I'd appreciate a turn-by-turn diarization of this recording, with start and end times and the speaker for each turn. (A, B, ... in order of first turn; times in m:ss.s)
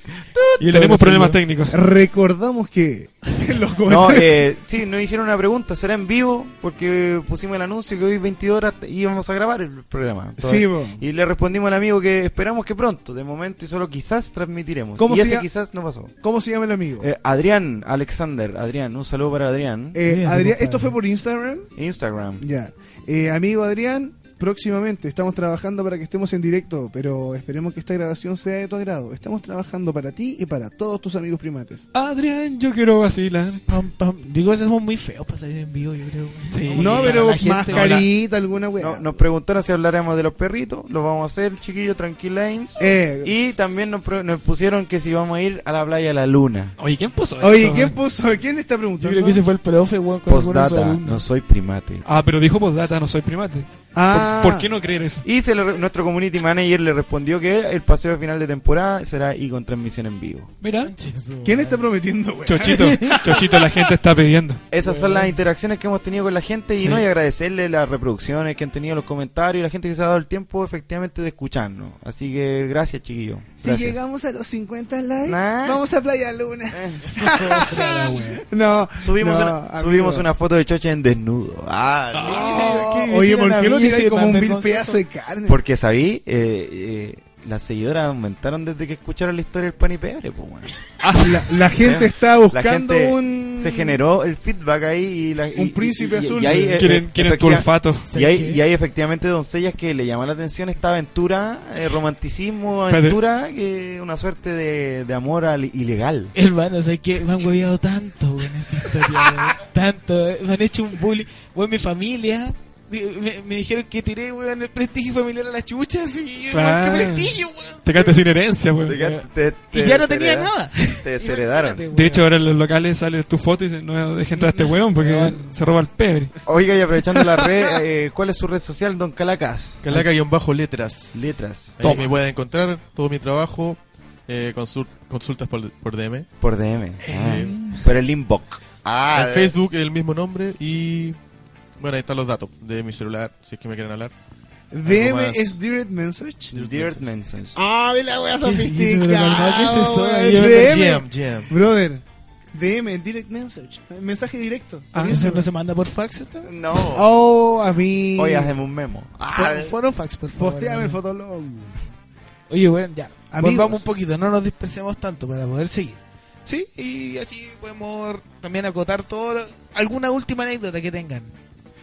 0:00.2-0:00.9 A
0:00.6-0:01.8 B
0:00.8-0:04.4 C
0:03.8-0:16.1 A
0:10.4-0:11.0 C
0:15.0-0:15.5 C
0:16.2-0:17.1 C
0:17.0-0:20.0 A
0:19.9-0:21.7 C
0:20.0-0:21.0 D
0:21.8-0:22.4 A
0:22.4-0:31.9 C
0:31.9-0:33.6 B
0:33.7-0:38.1 D
0:36.5-0:38.1 B
0:36.8-0:39.2 C
0:38.8-0:46.7 A
0:42.8-0:43.3 C
0:46.8-0:48.0 B
0:47.4-0:49.4 C
0:49.0-0:51.3 D
0:50.3-0:52.1 A
0:52.1-0:55.2 B
0:53.9-0:54.7 C
0:55.2-1:00.5 A
1:00.6-1:00.9 B
1:00.8-1:01.9 D
1:01.4-1:03.5 C
1:02.4-1:04.6 B
1:02.6-1:03.6 D
1:04.7-1:14.0 A
1:04.8-1:05.4 D
1:13.6-1:20.3 C
1:15.2-1:15.8 A
1:16.7-1:17.2 A
1:17.0-1:18.4 D
1:19.0-1:22.7 A
1:22.1-1:22.7 B
1:22.2-1:25.0 D
1:22.3-1:25.6 C
1:25.4-1:30.8 A
1:31.0-1:31.6 B
1:31.0-1:34.0 C
1:31.8-1:46.3 A
1:35.6-1:36.9 C
1:36.8-1:38.1 B
1:38.1-1:38.6 D
1:42.9-1:43.2 B
1:46.3-1:58.2 D
1:56.5-1:59.0 B
1:58.8-2:01.8 A
1:58.9-2:02.3 D
2:01.9-2:06.3 B
2:04.3-2:05.4 D
2:06.4-2:10.0 A
2:09.8-2:16.3 E
2:11.1-2:12.0 A
2:11.8-2:12.1 B
2:16.4-2:19.6 A
2:17.1-2:17.5 E
2:17.2-2:17.8 B
2:19.1-2:21.2 E
2:21.8-2:24.1 E
2:24.7-2:26.6 C
2:24.8-2:25.6 E
2:26.5-2:27.6 A
2:26.5-2:27.1 E
2:27.6-2:32.0 C
2:28.4-2:30.8 D
2:30.3-2:31.5 E
2:32.5-2:35.2 C
2:34.9-2:35.4 B
2:35.0-2:36.5 D
2:36.4-2:37.1 A
2:36.9-2:38.5 C
2:38.1-2:39.8 A
2:39.3-2:41.0 D
2:40.4-2:41.8 C
2:42.5-2:51.3 D
2:43.3-2:43.8 C